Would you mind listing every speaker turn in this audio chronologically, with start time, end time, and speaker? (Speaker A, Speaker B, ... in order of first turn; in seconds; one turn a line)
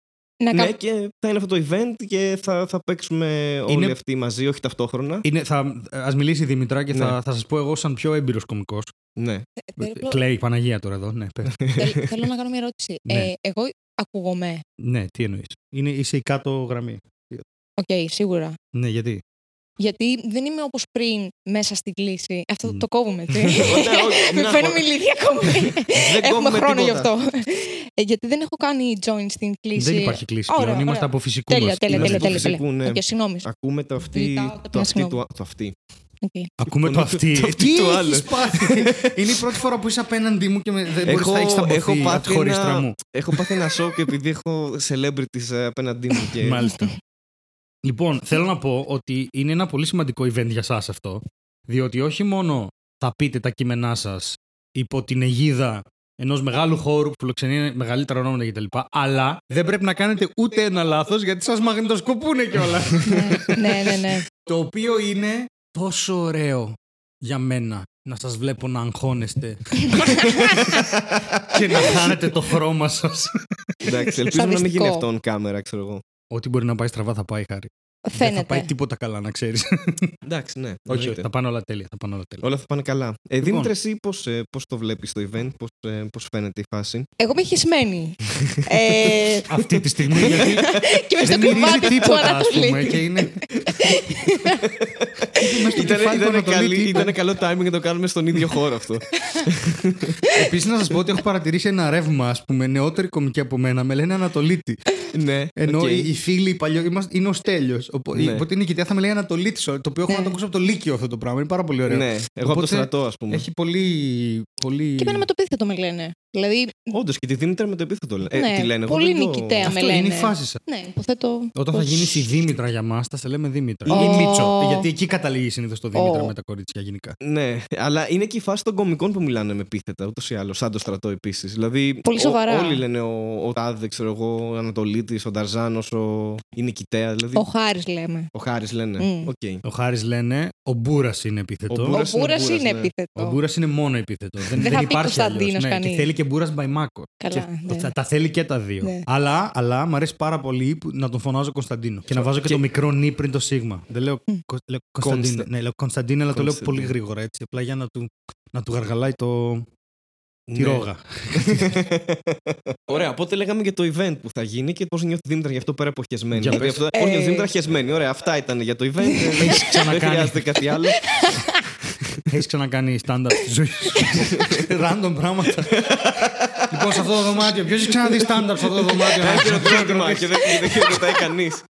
Speaker A: 0.4-0.7
Speaker B: 0.5-5.3
Speaker C: 3.7-4.0
Speaker C: 5.2-8.9
Speaker B: 6.9-7.2
Speaker B: 9.2-9.5
Speaker A: 9.6-10.2
Speaker C: 9.8-11.6
Speaker B: 11.6-11.9
Speaker A: 11.8-14.6
Speaker C: 13.1-13.3
Speaker C: 14.8-17.4
Speaker A: 17.8-18.6
Speaker C: 18.7-19.2
Speaker A: 19.8-33.5
Speaker B: 23.4-24.9
Speaker B: 25.4-27.1
Speaker C: 29.8-32.5
Speaker B: 31.9-35.7
Speaker A: 34.1-35.2
Speaker A: 36.2-36.5
Speaker C: 36.6-43.5
Speaker B: 36.8-39.5
Speaker B: 41.1-46.7
Speaker C: 46.4-46.9
Speaker C: 47.8-70.3
Speaker A: 63.1-64.2
Speaker A: 69.9-70.8
Speaker B: 70.2-72.0
Speaker C: 71.5-73.9
Speaker B: 73.8-76.0
Speaker A: 74.2-75.0
Speaker C: 76.3-80.1
Speaker A: 78.1-78.7
Speaker B: 80.2-81.3
Speaker C: 80.9-82.4
Speaker B: 82.4-87.1
Speaker C: 83.4-83.7
Speaker A: 87.2-89.5
Speaker C: 89.5-90.7
Speaker A: 90.2-94.6
Speaker B: 90.2-90.8
Speaker C: 91.2-93.4
Speaker B: 93.5-100.2
Speaker C: 95.4-97.2
Speaker A: 95.4-95.7
Speaker A: 99.2-99.5
Speaker A: 100.3-100.5
Speaker C: 100.3-104.8
Speaker B: 105.1-106.1
Speaker C: 105.6-115.3
Speaker B: 108.1-108.5
Speaker A: 110.1-110.3
Speaker B: 111.9-113.5
Speaker A: 115.0-117.0
Speaker B: 116.9-119.7
Speaker A: 118.3-122.2
Speaker C: 119.6-120.6
Speaker C: 121.6-127.2
Speaker B: 123.8-124.3
Speaker A: 123.9-124.9
Speaker A: 125.9-126.3
Speaker B: 127.2-137.4
Speaker A: 132.1-132.8
Speaker A: 137.4-138.3
Speaker B: 138.3-139.6
Speaker A: 139.0-139.3
Speaker C: 139.7-142.0
Speaker B: 141.7-142.9
Speaker A: 141.9-143.4
Speaker C: 143.2-159.7
Speaker A: 144.6-146.1
Speaker A: 147.2-147.9
Speaker B: 152.1-152.6
Speaker B: 155.0-155.5
Speaker B: 156.3-156.9
Speaker B: 160.5-160.8
Speaker C: 160.6-161.8
Speaker B: 161.4-171.2
Speaker C: 166.3-166.8
Speaker A: 166.9-167.5
Speaker A: 169.1-169.8
Speaker C: 169.4-170.4
Speaker A: 171.0-171.6
Speaker C: 172.3-175.8
Speaker A: 174.0-174.2
Speaker B: 174.3-174.7
Speaker B: 175.7-177.1
Speaker C: 176.7-181.0
Speaker B: 177.7-178.4
Speaker B: 179.0-181.6
Speaker A: 180.6-181.1